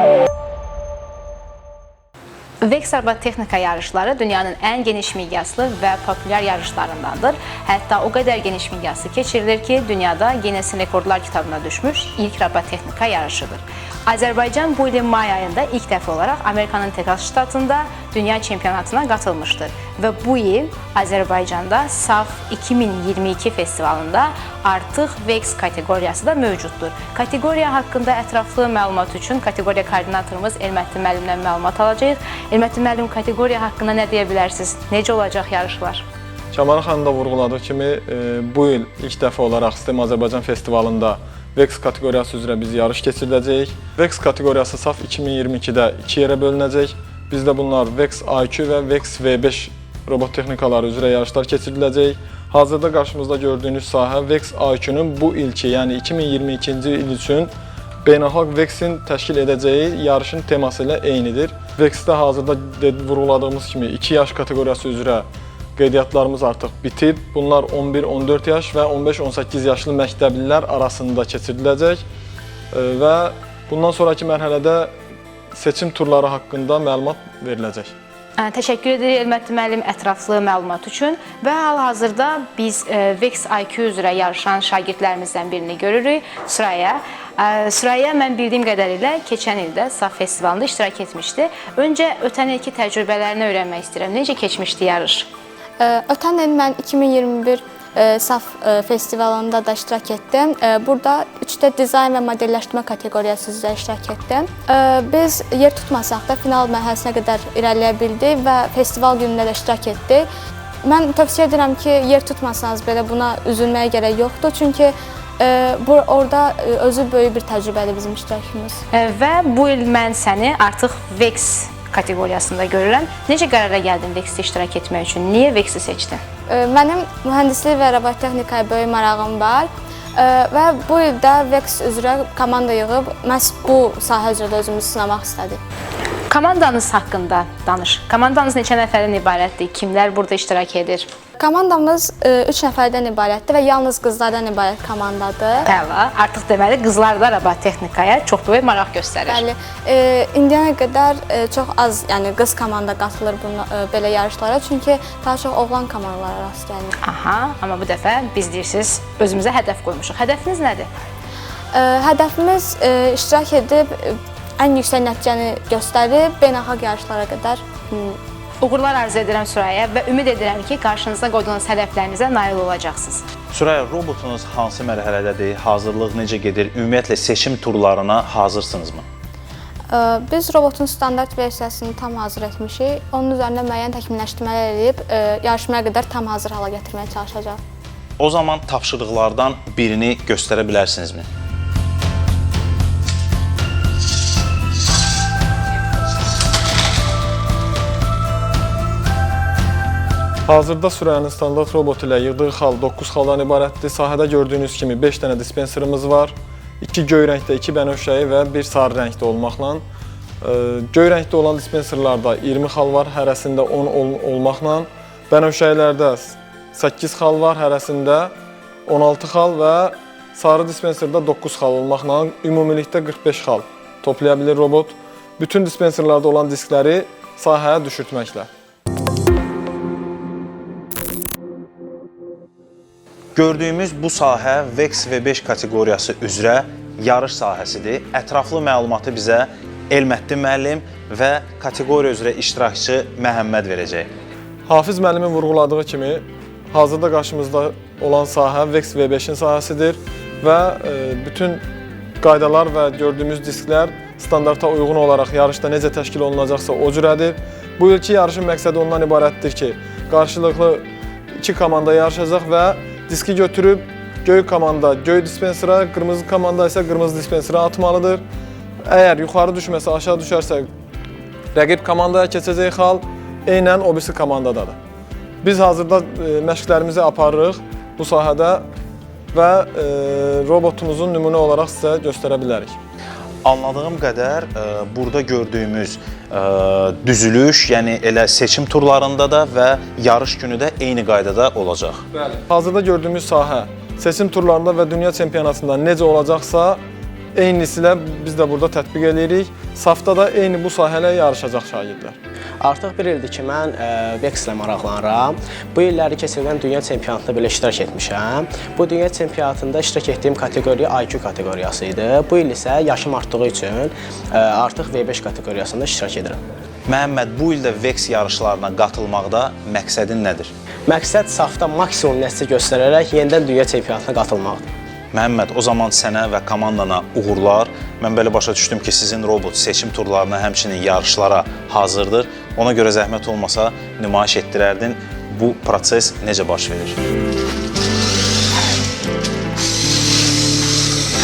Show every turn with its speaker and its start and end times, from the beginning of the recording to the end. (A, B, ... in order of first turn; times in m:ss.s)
0:02.6-0:36.0 A
0:36.5-0:57.5 B
0:58.0-1:12.0 B
1:12.7-1:14.9 B
1:15.5-1:17.9 B
1:18.4-1:35.3 A
1:35.8-1:50.3 C
1:50.8-1:58.8 C
1:58.9-2:06.2 A
2:06.5-2:15.6 C
2:16.3-2:21.1 A
2:21.4-2:25.7 C
2:25.6-2:29.4 A
2:29.3-2:36.9 C
2:37.0-2:40.9 A
2:41.7-2:48.2 C
2:48.6-2:53.2 A
2:53.5-2:59.0 D
2:59.9-3:07.6 C
3:08.2-3:11.3 D
3:20.5-3:29.8 B
3:30.4-3:38.3 B
3:38.9-3:48.5 B
3:53.4-4:04.1 D
4:04.7-4:11.6 B
4:12.2-4:28.2 B
4:28.8-4:30.7 B
4:31.5-4:34.8 B
4:35.4-4:38.6 B
4:39.3-4:42.8 B
4:43.4-4:52.0 D
4:52.3-4:56.8 B
4:57.4-5:02.2 B
5:02.6-5:16.4 E
5:16.9-5:20.5 D
5:20.9-5:24.6 E
5:25.1-5:37.0 D